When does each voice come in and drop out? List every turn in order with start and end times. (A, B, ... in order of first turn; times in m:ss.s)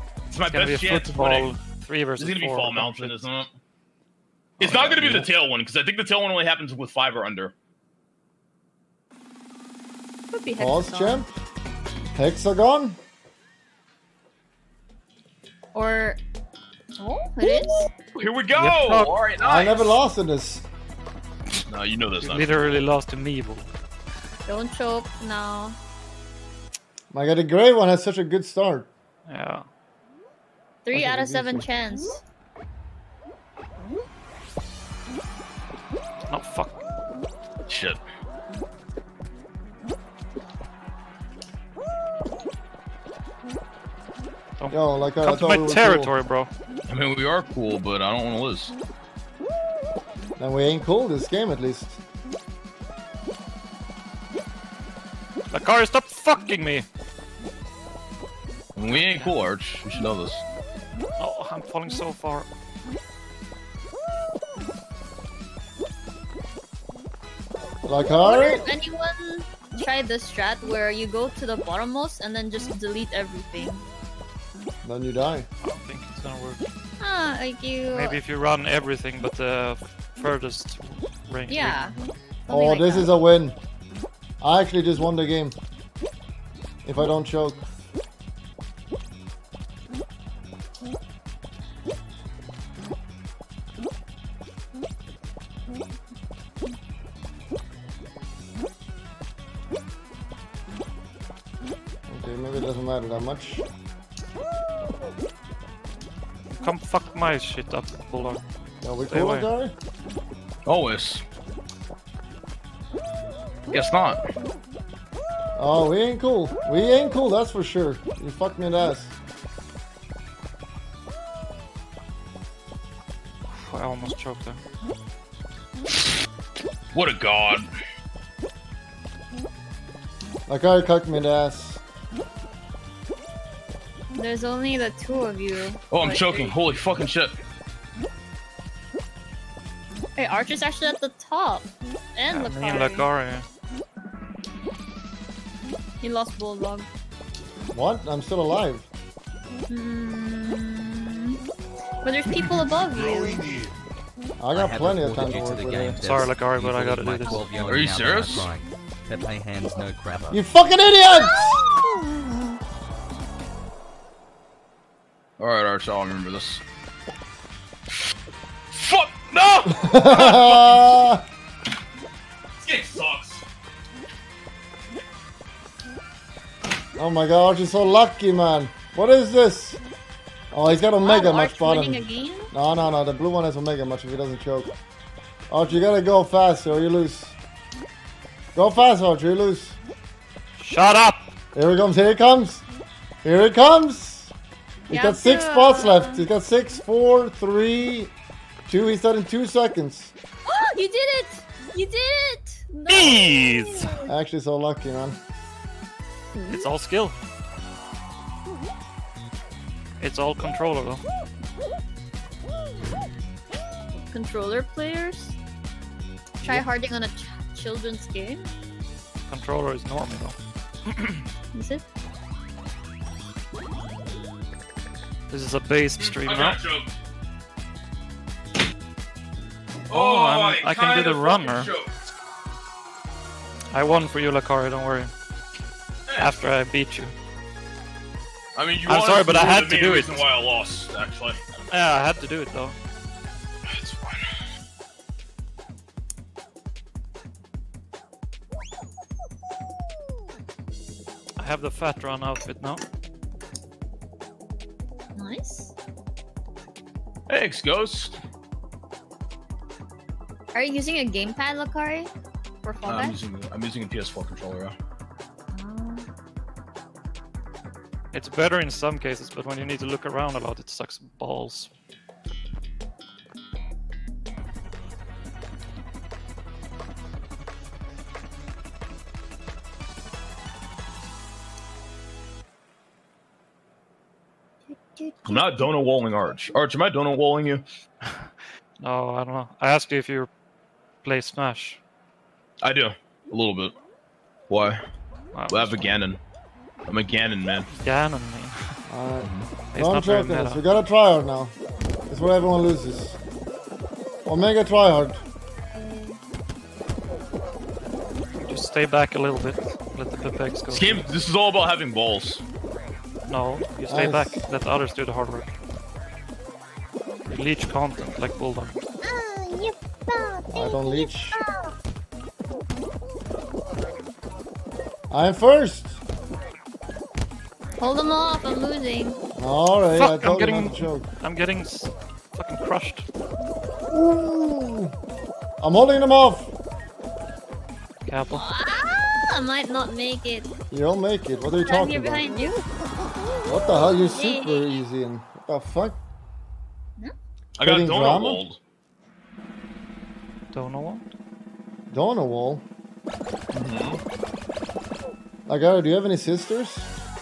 0:00.3-0:01.5 A
0:00.5-0:03.3 B
0:02.2-0:03.5 A
0:04.6-0:05.2 B
0:04.6-0:07.5 A
0:05.0-0:05.3 C
0:10.3-0:11.3 D
0:10.6-0:11.3 C
0:12.1-0:13.0 C
0:15.7-0:16.2 D
0:17.0-0:17.9 D
0:18.1-0:20.0 A
0:18.6-0:19.1 B
0:19.4-0:20.7 C
0:21.7-0:22.8 A
0:22.2-0:23.7 B
0:24.5-0:25.8 D
0:27.1-0:28.9 C
0:29.3-0:29.7 B
0:30.8-0:32.2 D
0:30.9-0:31.7 C
0:36.3-0:36.8 B
0:37.7-0:38.0 A
0:44.6-0:46.5 B
0:44.7-0:46.1 C
0:46.9-0:48.7 A
0:50.4-0:52.0 C
0:55.5-0:56.9 B
0:58.8-1:00.4 A
0:58.9-0:59.3 B
1:01.2-1:02.5 B
1:07.8-1:08.7 C
1:08.2-1:13.9 D
1:14.8-1:15.5 C
1:15.6-1:16.6 B
1:17.0-1:18.2 D
1:17.9-1:21.8 B
1:21.5-1:21.9 D
1:22.5-1:23.1 D
1:22.5-1:23.6 C
1:24.4-1:25.6 C
1:26.8-1:27.6 C
1:42.1-1:43.7 C
1:46.6-1:48.4 B
1:48.8-1:49.7 C
1:49.1-1:49.5 B
1:50.7-1:51.2 A
1:53.7-1:54.2 A
1:55.6-1:59.1 C
2:03.5-2:04.6 B
2:06.9-2:07.7 A
2:10.5-2:11.8 C
2:14.1-2:16.6 D
2:15.9-2:17.4 A
2:20.2-2:23.1 D
2:22.3-2:23.4 B
2:26.0-2:26.9 D
2:27.7-2:28.9 C
2:29.7-2:31.4 D
2:32.0-2:33.5 D
2:34.4-2:36.0 C
2:34.5-2:40.4 E
2:36.0-2:37.4 B
2:37.3-2:37.6 D
2:37.6-2:38.5 A
2:40.3-2:41.6 C
2:41.1-2:42.2 D
2:45.4-2:46.6 A
2:48.7-2:51.0 A
2:49.7-2:51.2 C
2:52.6-2:53.4 A
2:57.0-2:59.8 C
3:00.5-3:04.7 C
3:01.0-3:02.5 D
3:05.5-3:07.4 C
3:08.6-3:09.8 C
3:10.6-3:11.3 B
3:11.5-3:12.6 C
3:13.2-3:14.3 C
3:14.9-3:18.1 C
3:14.9-3:16.2 D
3:18.7-3:20.1 C
3:20.5-3:24.1 D
3:22.9-3:24.0 B
3:24.1-3:25.2 C
3:26.5-3:27.2 B
3:30.0-3:31.0 B
3:34.0-3:35.4 D
3:36.4-3:38.5 D
3:39.3-3:40.4 B
3:40.9-3:41.3 B
3:41.5-3:41.8 D
3:45.3-3:46.6 B
3:46.0-3:46.9 A
3:49.9-3:51.9 A
3:49.9-3:51.7 B
3:53.7-3:55.1 B
3:56.1-3:56.3 A
3:56.2-3:57.1 B
3:58.6-4:01.4 A
3:58.9-4:00.3 B
4:01.7-4:02.8 B
4:03.7-4:04.3 A
4:11.4-4:12.8 B
4:15.2-4:15.7 D
4:17.3-4:18.2 A
4:20.5-4:22.1 D
4:22.6-4:23.2 D
4:22.9-4:24.8 A
4:25.5-4:26.1 D
4:28.1-4:31.7 B
4:44.7-4:45.7 D
4:45.2-4:47.6 A
4:48.8-4:50.3 B
4:51.0-4:51.8 B
4:52.6-4:53.8 A
4:54.5-4:54.8 A
4:55.3-4:56.0 B
4:55.5-4:56.2 A
4:56.9-4:57.7 A
4:57.8-4:58.8 B
4:58.9-5:01.5 C
4:59.7-5:00.6 B
5:02.1-5:03.2 C
5:04.2-5:05.2 C
5:05.7-5:06.2 D
5:08.5-5:11.1 B
5:10.7-5:12.4 A
5:13.3-5:15.5 B
5:13.9-5:14.5 C
5:17.3-5:18.8 B
5:19.0-5:21.7 D
5:20.5-5:21.4 C
5:25.1-5:26.0 C
5:27.8-5:29.2 D
5:29.4-5:31.1 C
5:30.0-5:33.1 B
5:33.9-5:34.9 C
5:35.6-5:36.5 C
5:38.1-5:38.4 B
5:38.3-5:40.5 D
5:40.7-5:42.2 C
5:41.5-5:42.6 D
5:43.5-5:46.0 C
5:44.1-5:44.7 D
5:47.6-5:48.6 A
5:47.6-5:48.4 C
5:50.5-5:51.1 B
5:51.9-5:52.6 C
5:53.5-5:54.0 A
5:55.5-5:56.9 C